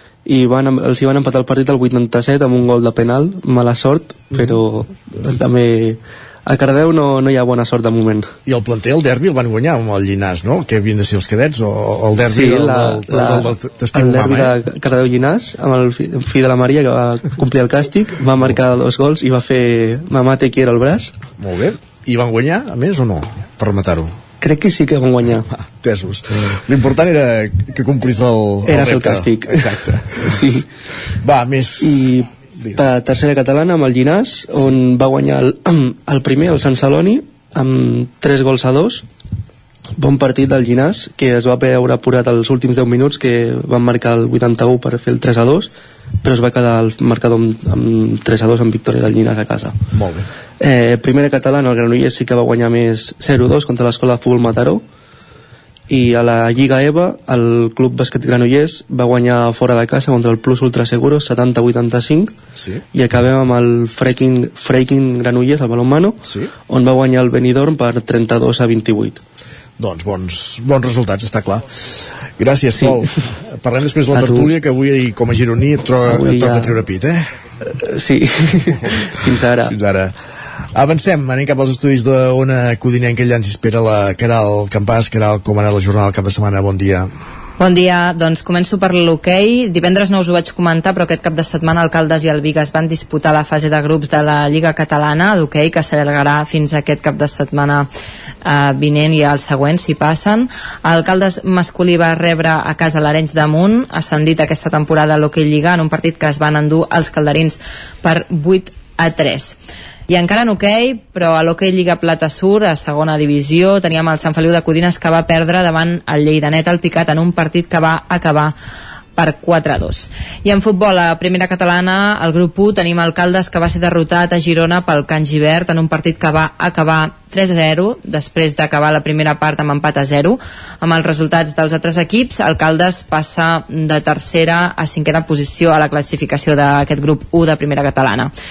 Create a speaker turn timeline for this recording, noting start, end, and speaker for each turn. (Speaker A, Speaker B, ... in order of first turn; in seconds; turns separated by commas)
Speaker A: 0.2-8.3, Speaker B: 4.3-4.6, Speaker B: 8.4-14.5, Speaker A: 12.2-21.1, Speaker B: 21.4-24.1, Speaker A: 24.4-25.5, Speaker B: 25.5-30.6, Speaker A: 28.6-30.6, Speaker B: 31.2-32.0, Speaker A: 31.8-39.0, Speaker B: 32.6-32.8, Speaker A: 40.0-45.7, Speaker A: 46.2-49.8, Speaker B: 49.9-50.3, Speaker A: 50.6-54.8, Speaker A: 55.9-62.3, Speaker B: 62.5-62.8, Speaker A: 62.9-69.2, Speaker B: 66.2-66.5, Speaker B: 69.8-77.3, Speaker A: 72.8-73.1, Speaker A: 74.1-74.5, Speaker A: 76.0-76.7, Speaker A: 77.6-79.7, Speaker B: 79.6-80.1, Speaker B: 80.7-87.1, Speaker C: 87.6-97.9, Speaker C: 98.4-109.5, Speaker C: 110.1-118.5, Speaker C: 119.2-138.3